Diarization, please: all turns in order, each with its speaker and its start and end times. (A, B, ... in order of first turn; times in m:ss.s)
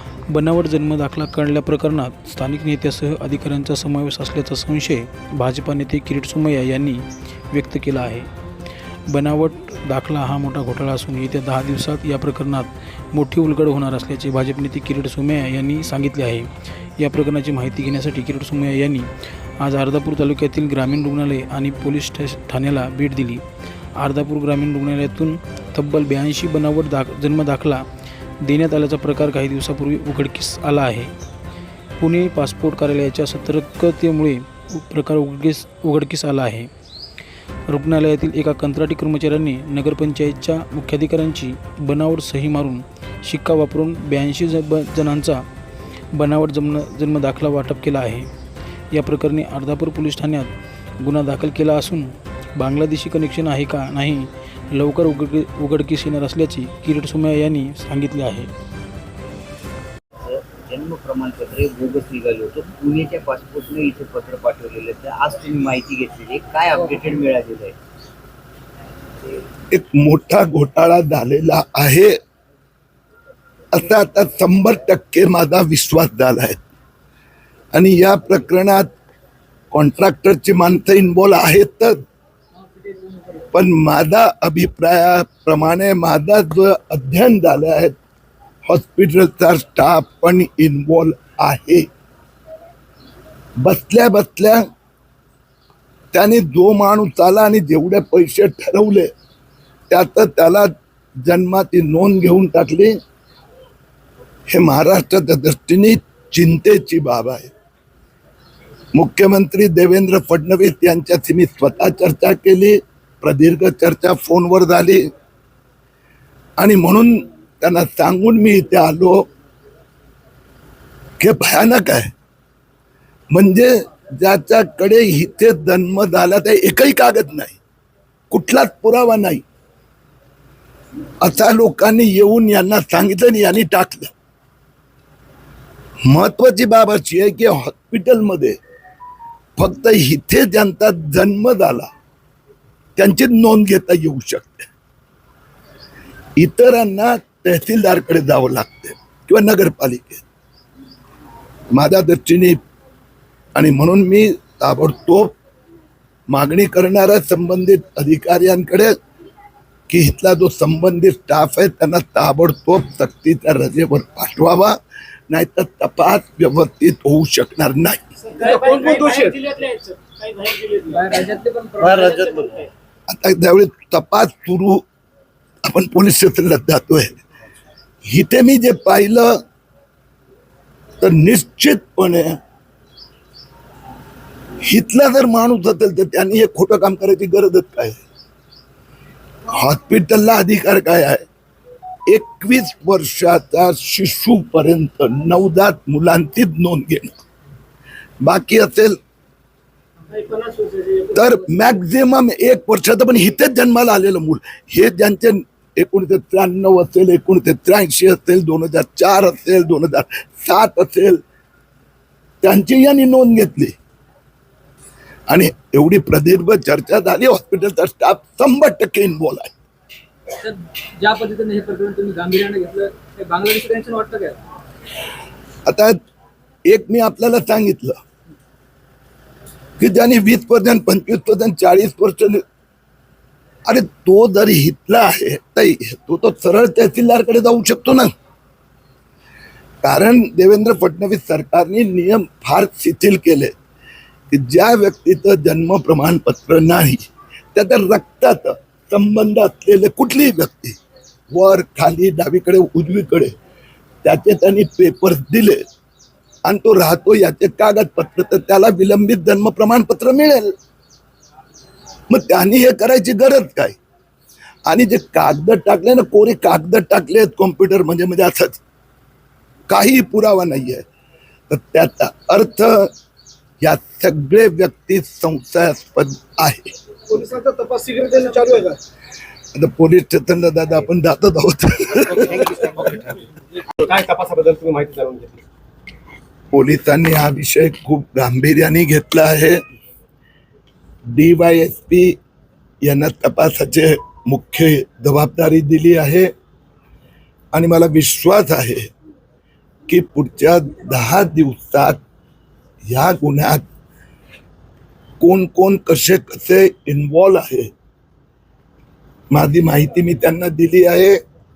0:00.3-0:08.3 A
0:09.1-0:16.4 A
0:17.0-0:19.1 A
0:19.6-0:23.4 A
0:24.0-0:27.8 A
0:28.4-0:31.1 A
0:32.0-0:36.7 A
0:37.7-0:45.4 A
0:46.1-0:48.3 A
0:48.9-0:50.5 A
0:51.0-0:58.5 A
1:00.2-1:07.8 B
1:09.7-1:12.2 C
1:13.7-1:16.6 C
1:17.7-1:18.9 C
1:19.7-1:22.0 C
1:22.8-1:23.4 D
1:23.5-1:28.0 C
1:28.7-1:31.9 C
1:33.6-1:34.6 C
1:36.1-1:39.1 C
1:39.9-1:43.0 C
1:44.5-1:47.5 C
1:48.9-1:55.0 C
1:56.6-1:59.2 C
2:01.2-2:02.1 C
2:03.3-2:07.6 C
2:08.3-2:09.4 C
2:11.2-2:14.1 C
2:16.0-2:18.6 C
2:19.6-2:21.9 C
2:23.0-2:24.7 C
2:26.4-2:30.2 C
2:31.7-2:32.6 C
2:33.5-2:35.3 C
2:36.3-2:38.9 C
2:39.9-2:44.8 C
2:45.3-2:48.0 C
2:48.3-2:52.7 D
2:48.4-2:49.4 E
2:53.1-2:54.8 C
2:55.6-2:57.2 C
2:58.1-2:59.4 C
3:01.0-3:02.4 C
3:04.6-3:08.0 C
3:09.5-3:11.2 C
3:12.1-3:17.1 C
3:18.2-3:19.0 C
3:20.3-3:21.1 D
3:20.4-3:20.9 E
3:21.1-3:31.2 C
3:32.4-3:33.7 C
3:35.3-3:39.5 C
3:40.4-3:44.4 D
3:45.6-3:46.0 C
3:46.7-3:48.0 C
3:49.8-3:52.4 C
3:53.6-3:58.1 C
3:59.8-4:03.5 C
4:04.3-4:10.8 C
4:11.3-4:13.3 C
4:14.0-4:15.6 C
4:16.4-4:20.5 C
4:22.1-4:23.8 C
4:24.6-4:28.6 C
4:29.7-4:30.8 C
4:31.5-4:32.9 C
4:33.6-4:36.7 C
4:37.1-4:38.8 E
4:39.5-4:42.8 C
4:43.8-4:45.4 E
4:46.5-4:49.6 C
4:51.1-4:52.2 C
4:52.8-4:56.3 C
4:57.5-4:58.9 C
4:59.9-5:02.0 C
5:02.9-5:03.6 C
5:05.2-5:07.7 C
5:09.3-5:11.2 C